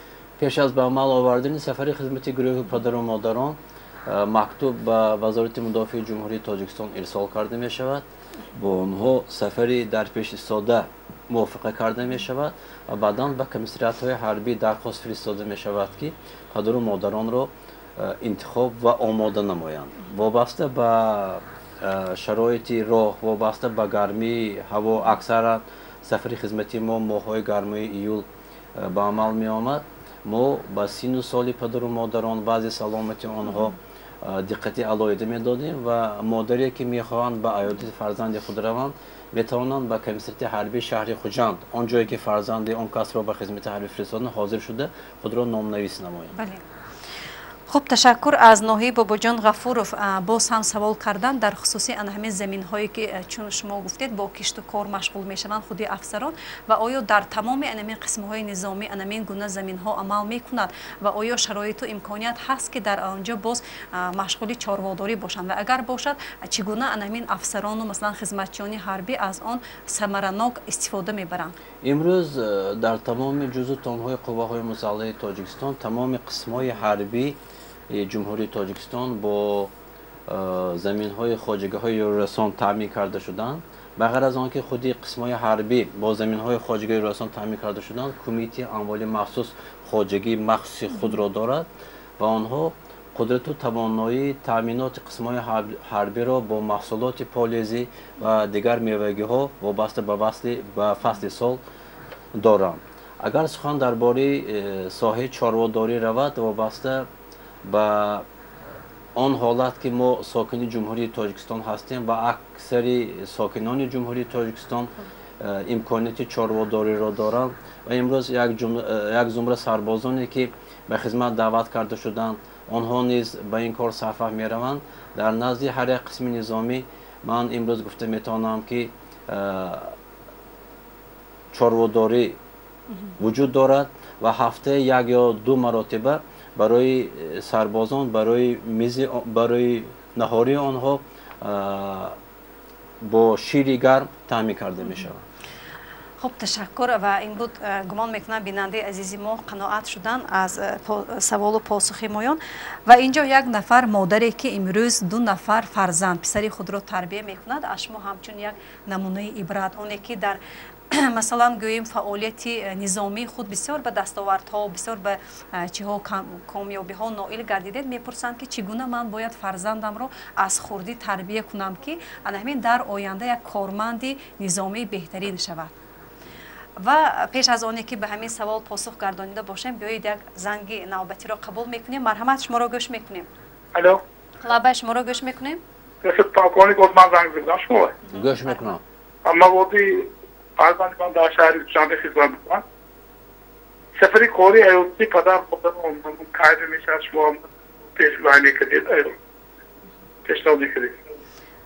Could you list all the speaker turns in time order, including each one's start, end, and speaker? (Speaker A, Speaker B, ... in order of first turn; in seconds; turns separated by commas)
Speaker A: 0.4-46.4, Speaker B: 46.4-46.6, Speaker B: 47.7-71.5, Speaker A: 71.8-79.7, Speaker A: 80.3-91.7, Speaker A: 92.2-101.6, Speaker A: 102.3-107.1, Speaker A: 107.6-108.3, Speaker A: 109.1-130.0, Speaker A: 131.5-132.4, Speaker A: 133.2-142.2, Speaker A: 143.0-145.2, Speaker B: 146.2-160.4, Speaker B: 160.9-175.7, Speaker B: 176.8-183.3, Speaker C: 183.7-184.0, Speaker B: 184.4-185.6, Speaker C: 186.0-187.9, Speaker B: 188.1-188.6, Speaker A: 188.1-188.8, Speaker C: 189.2-192.6, Speaker C: 194.0-199.1, Speaker C: 200.2-200.9